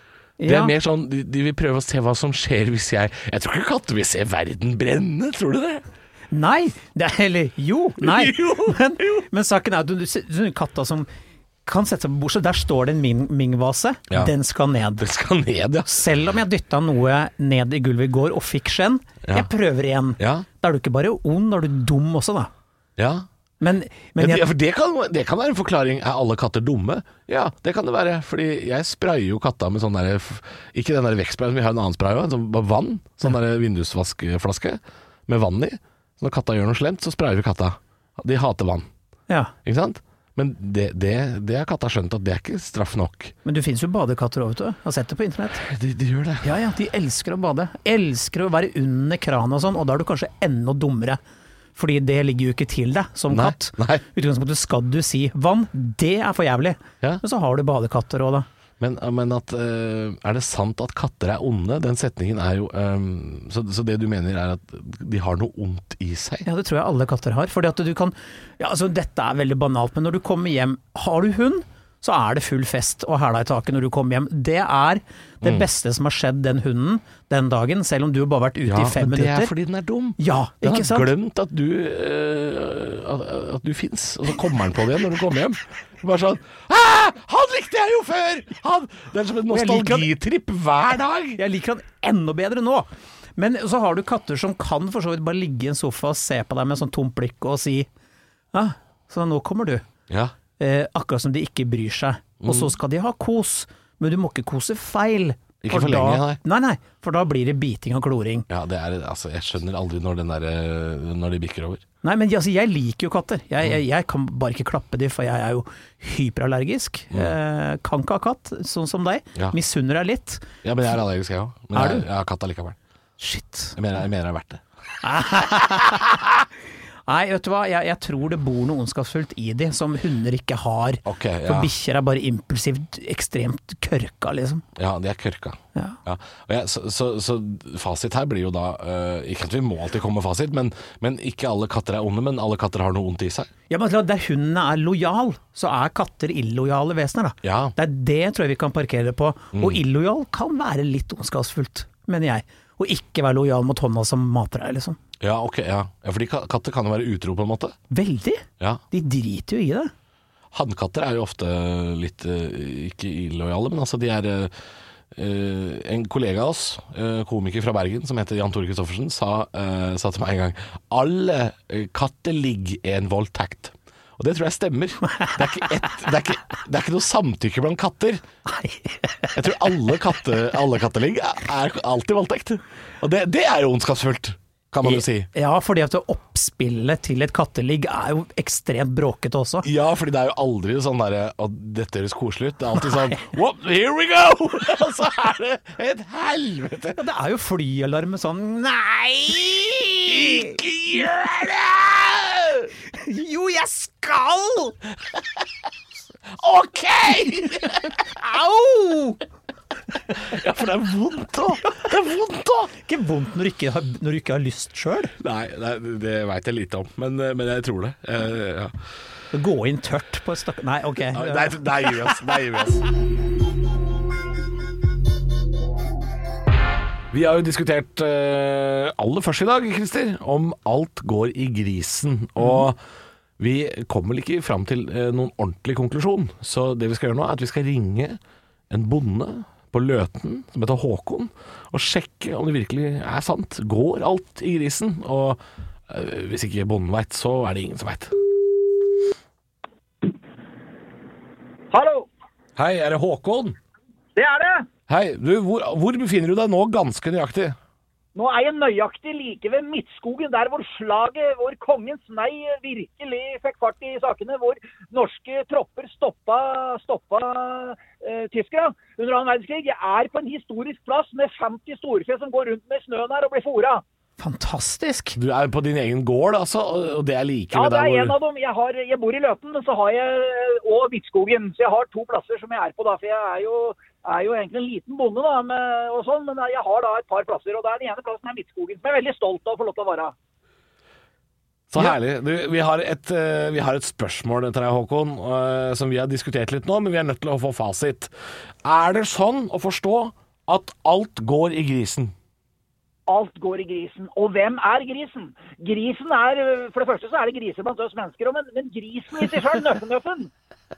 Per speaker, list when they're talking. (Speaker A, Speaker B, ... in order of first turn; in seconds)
Speaker A: 0.4-0.7, 6.3-11.1, 11.6-15.0, 15.9-22.5, 23.6-24.5, 43.4-45.6, 46.4-51.2, 51.7-58.5, 66.4-79.5, 80.2-81.1, 89.5-90.1, 91.4-97.9, 98.5-99.8, 100.6-108.5, 112.0-120.5, 121.7-122.0, 123.2-123.8, 125.0-126.2, 127.1-134.6, 143.7-155.0, 157.9-159.9, 175.1-175.9, 178.4-179.7, 184.8-189.7, 196.9-200.6, 202.9-204.8, 207.4-209.2, 212.8-215.1, 219.3-222.1, 274.2-275.2
Speaker B: 0.4-5.8, 8.0-9.2, 15.0-16.1, 20.2-20.4, 23.0-23.2, 24.2-38.9, 39.6-43.3, 45.6-46.5, 53.3-54.0, 58.8-66.5, 78.7-91.4, 100.1-100.3, 102.4-102.7, 105.6-106.4, 108.5-111.8, 120.6-122.8, 123.8-124.6, 131.0-131.7, 134.8-143.5, 147.4-147.7, 149.5-149.8, 155.2-157.7, 160.5-164.5, 165.1-178.2, 179.3-185.3, 189.6-197.0, 200.0-202.7, 206.3-208.0, 210.1-212.7, 215.2-218.7, 221.1-222.8, 227.1-232.8, 233.4-238.2, 238.7-248.2, 252.6-253.6, 254.9-257.6, 275.1-278.2, 291.7-298.1, 298.6-302.1
Speaker C: 251.7-252.1, 254.2-254.7, 258.1-273.8, 277.5-290.1, 303.1-310.3